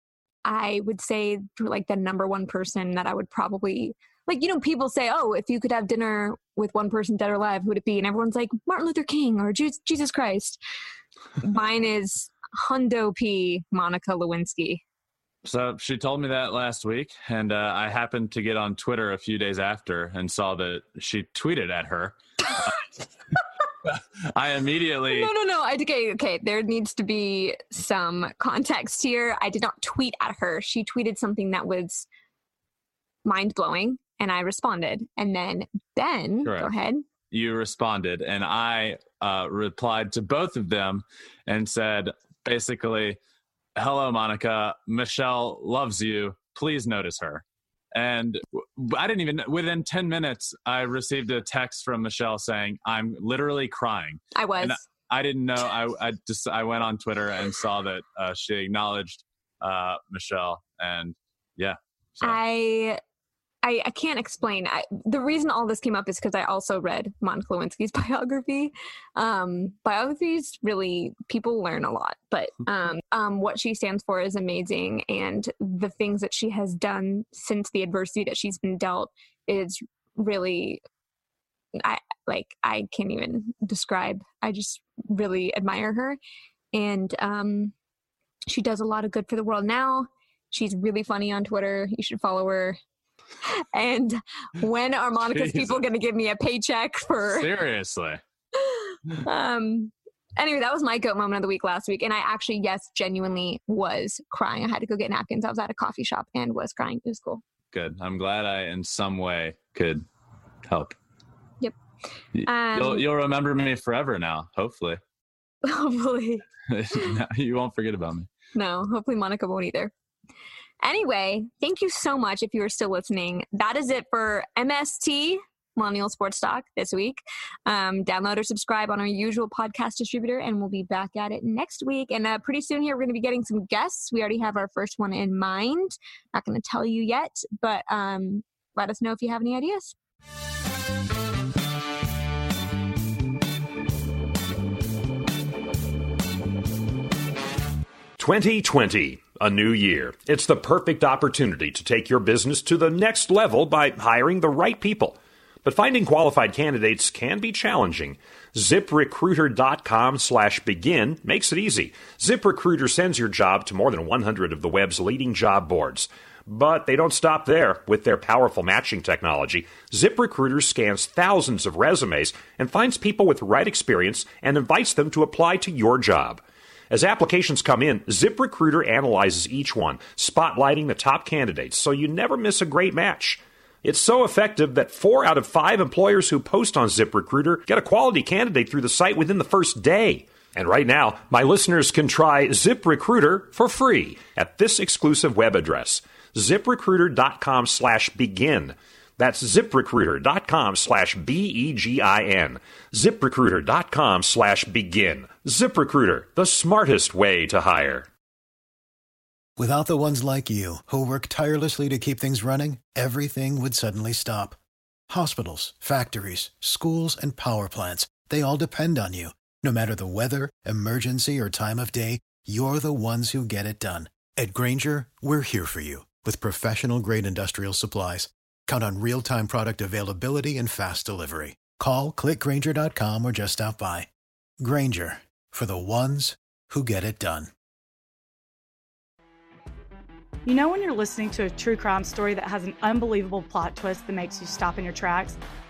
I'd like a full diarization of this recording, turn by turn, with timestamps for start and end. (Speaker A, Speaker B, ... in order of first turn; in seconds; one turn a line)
Speaker A: 0.5-10.6
Speaker A: 11.4-14.8
Speaker B: 15.4-22.8
Speaker B: 23.8-25.3
Speaker A: 25.1-32.1
Speaker A: 33.2-37.0
Speaker B: 36.4-36.7
Speaker B: 37.3-43.2
Speaker B: 43.8-62.4
Speaker A: 54.4-54.8
Speaker A: 62.2-63.0
Speaker A: 63.6-80.8
Speaker A: 81.8-86.2
Speaker A: 86.7-87.7
Speaker A: 88.5-92.8
Speaker A: 93.4-97.5
Speaker B: 95.3-95.8
Speaker B: 97.2-98.2
Speaker A: 98.5-107.4
Speaker B: 107.7-110.0
Speaker B: 110.7-110.9
Speaker B: 112.3-115.0
Speaker A: 112.4-113.0
Speaker A: 115.6-117.1
Speaker B: 116.7-118.3
Speaker A: 118.5-119.9
Speaker A: 120.8-139.9
Speaker C: 148.2-208.1
Speaker D: 209.6-214.6
Speaker D: 215.1-234.1
Speaker D: 234.6-237.5
Speaker E: 240.4-245.4